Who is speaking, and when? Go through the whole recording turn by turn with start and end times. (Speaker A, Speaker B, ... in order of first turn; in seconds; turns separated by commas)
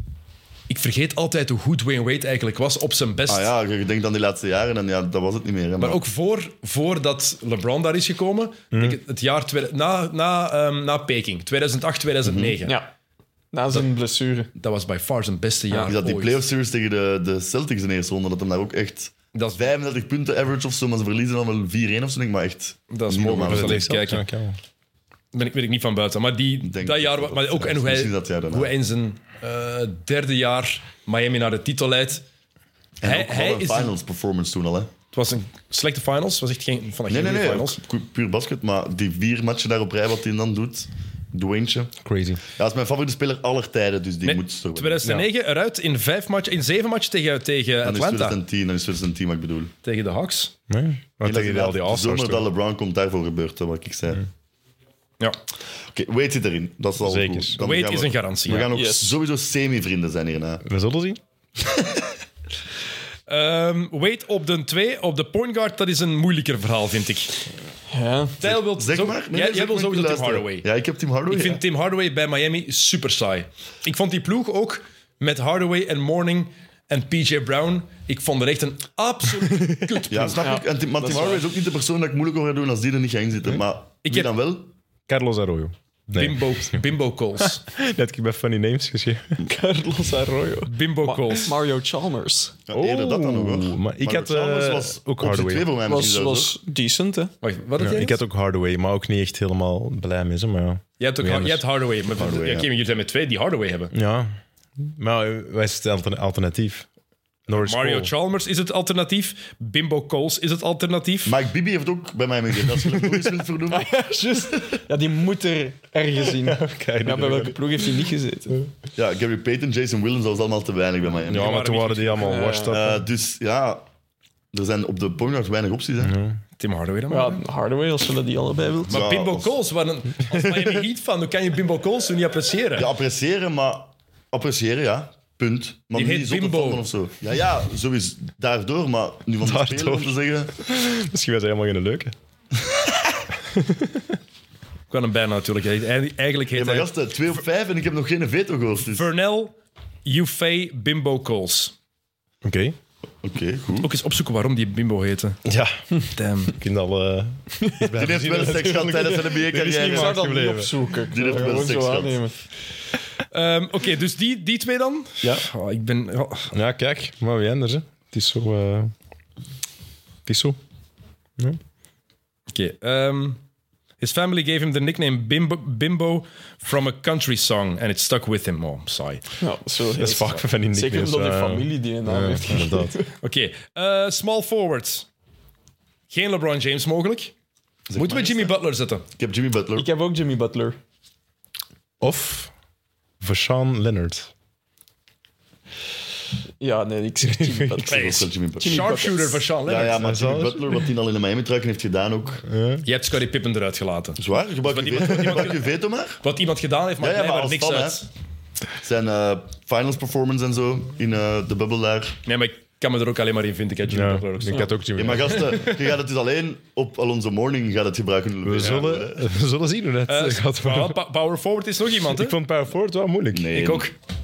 Speaker A: 0.7-3.5, Speaker B: 3.3-6.0, Speaker A: 5.8-12.8, Speaker C: 8.7-9.0, Speaker B: 12.2-12.6, Speaker D: 12.6-12.9, Speaker D: 13.5-14.5, Speaker A: 14.6-16.5, Speaker B: 15.7-23.9, Speaker A: 19.3-19.7, Speaker A: 22.9-24.2, Speaker C: 23.5-24.6, Speaker A: 25.3-32.2, Speaker B: 26.6-28.7, Speaker B: 33.0-34.9, Speaker A: 33.0-33.9, Speaker A: 35.1-37.8, Speaker B: 37.1-41.9, Speaker C: 42.0-42.4, Speaker B: 42.6-45.1, Speaker A: 44.2-48.4, Speaker B: 47.8-49.7, Speaker A: 49.8-50.5, Speaker C: 50.7-52.5, Speaker B: 51.2-54.3, Speaker B: 55.9-60.6, Speaker C: 57.0-57.6, Speaker A: 57.6-58.7, Speaker D: 58.7-59.2, Speaker C: 60.6-61.2, Speaker A: 63.3-67.3, Speaker D: 67.9-68.4, Speaker A: 68.4-70.7, Speaker B: 68.4-71.6, Speaker A: 71.3-80.5, Speaker C: 79.4-80.1, Speaker B: 80.1-84.7, Speaker D: 80.4-81.4, Speaker A: 84.0-84.3, Speaker C: 85.1-86.8, Speaker A: 86.2-87.6, Speaker C: 87.4-89.4, Speaker D: 89.4-92.5, Speaker A: 90.7-91.6, Speaker B: 92.7-96.5, Speaker C: 92.7-95.7, Speaker D: 95.9-97.3, Speaker A: 97.4-98.2, Speaker C: 97.8-101.6, Speaker A: 101.0-103.9, Speaker B: 102.2-102.7, Speaker C: 103.9-106.9, Speaker C: 107.5-108.1, Speaker A: 107.5-111.4, Speaker B: 111.2-114.1, Speaker C: 112.7-113.3, Speaker D: 113.7-118.6, Speaker C: 116.2-117.6, Speaker B: 119.0-121.6, Speaker A: 121.3-122.4, Speaker C: 121.3-123.0, Speaker D: 122.2-122.7, Speaker B: 122.7-123.8, Speaker B: 124.5-126.2, Speaker C: 126.0-126.4, Speaker A: 126.6-127.4, Speaker D: 127.1-129.0, Speaker A: 128.9-132.9, Speaker B: 128.9-129.6, Speaker B: 132.8-140.5, Speaker A: 135.9-136.8, Speaker C: 139.4-142.1, Speaker C: 143.4-144.2, Speaker A: 144.9-146.9, Speaker B: 146.6-149.1, Speaker A: 148.9-149.5, Speaker A: 150.1-151.7, Speaker C: 152.4-152.8, Speaker B: 153.2-153.9, Speaker A: 153.8-155.4, Speaker C: 155.5-155.8, Speaker A: 156.1-156.6, Speaker C: 156.5-160.8, Speaker D: 157.6-157.9, Speaker B: 157.9-160.2, Speaker D: 159.8-162.4, Speaker B: 161.1-162.2, Speaker A: 163.3-166.5, Speaker C: 166.5-168.9, Speaker C: 170.3-170.6, Speaker A: 172.5-173.4, Speaker A: 174.0-179.2, Speaker D: 179.4-183.1, Speaker C: 179.9-182.9, Speaker A: 183.2-185.1, Speaker A: 186.1-187.3, Speaker B: 187.9-188.5, Speaker A: 188.0-189.1, Speaker B: 189.1-189.9, Speaker D: 189.8-190.8, Speaker C: 192.0-192.5, Speaker C: 193.2-194.3, Speaker D: 196.6-199.4, Speaker C: 197.3-197.8, Speaker B: 197.9-202.4, Speaker A: 197.9-200.0, Speaker C: 199.8-200.8, Speaker C: 202.4-202.8, Speaker A: 202.8-208.1, Speaker B: 204.2-206.2, Speaker B: 207.0-208.0, Speaker B: 208.8-212.2, Speaker A: 212.2-214.8, Speaker C: 213.9-215.5, Speaker B: 214.9-219.3, Speaker A: 215.3-215.9, Speaker C: 218.4-221.0, Speaker A: 220.1-222.3, Speaker C: 222.1-223.6, Speaker B: 223.3-223.9, Speaker A: 223.5-223.9